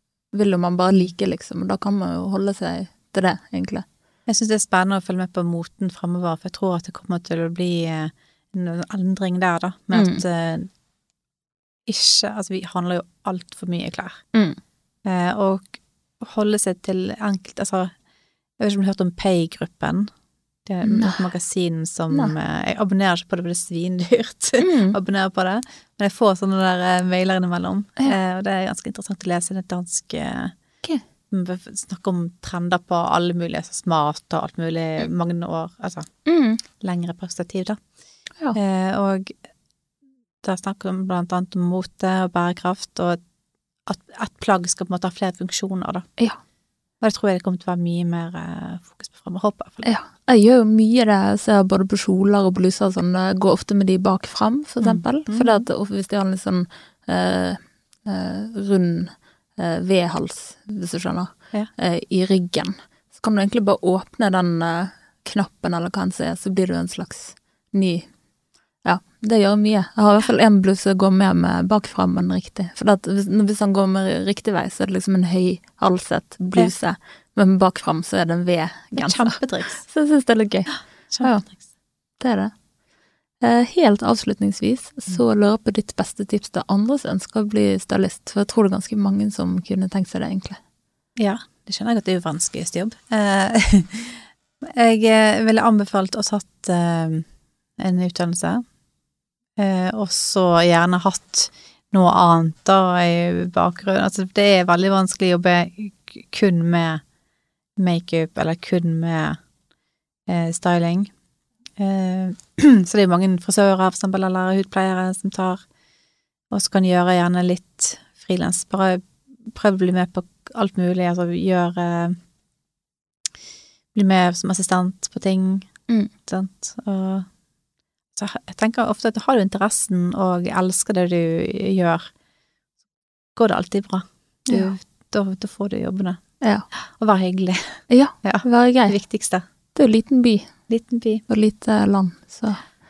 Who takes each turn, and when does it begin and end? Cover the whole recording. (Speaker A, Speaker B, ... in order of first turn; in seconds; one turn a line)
Speaker A: 0.3-3.8
Speaker B: 4.3-10.7
Speaker A: 9.9-10.2
Speaker B: 11.9-14.2
Speaker A: 14.3-14.6
Speaker B: 15.0-17.9
Speaker B: 18.6-20.1
Speaker B: 20.6-30.5
Speaker A: 20.8-21.3
Speaker A: 24.6-25.0
Speaker B: 31.3-36.1
Speaker A: 36.2-36.6
Speaker B: 36.8-37.8
Speaker B: 38.5-39.4
Speaker B: 40.4-43.2
Speaker B: 43.9-46.0
Speaker B: 47.0-49.9
Speaker A: 49.8-68.1
Speaker B: 54.8-55.6
Speaker A: 68.8-81.5
Speaker B: 79.0-79.8
Speaker B: 81.1-81.5
Speaker A: 82.2-82.5
Speaker A: 83.4-90.6
Speaker B: 91.2-97.3
Speaker B: 97.8-98.6
Speaker B: 99.6-107.0
Speaker B: 107.8-109.4
Speaker B: 110.3-111.1
Speaker B: 111.8-115.6
Speaker B: 116.5-122.2
Speaker B: 123.9-125.7
Speaker B: 126.3-127.3
Speaker B: 128.2-132.1
Speaker B: 133.3-136.2
Speaker A: 134.5-134.7
Speaker A: 136.4-136.7
Speaker B: 137.0-139.4
Speaker A: 137.9-139.0
Speaker A: 139.7-140.5
Speaker B: 140.7-141.2
Speaker A: 141.3-142.6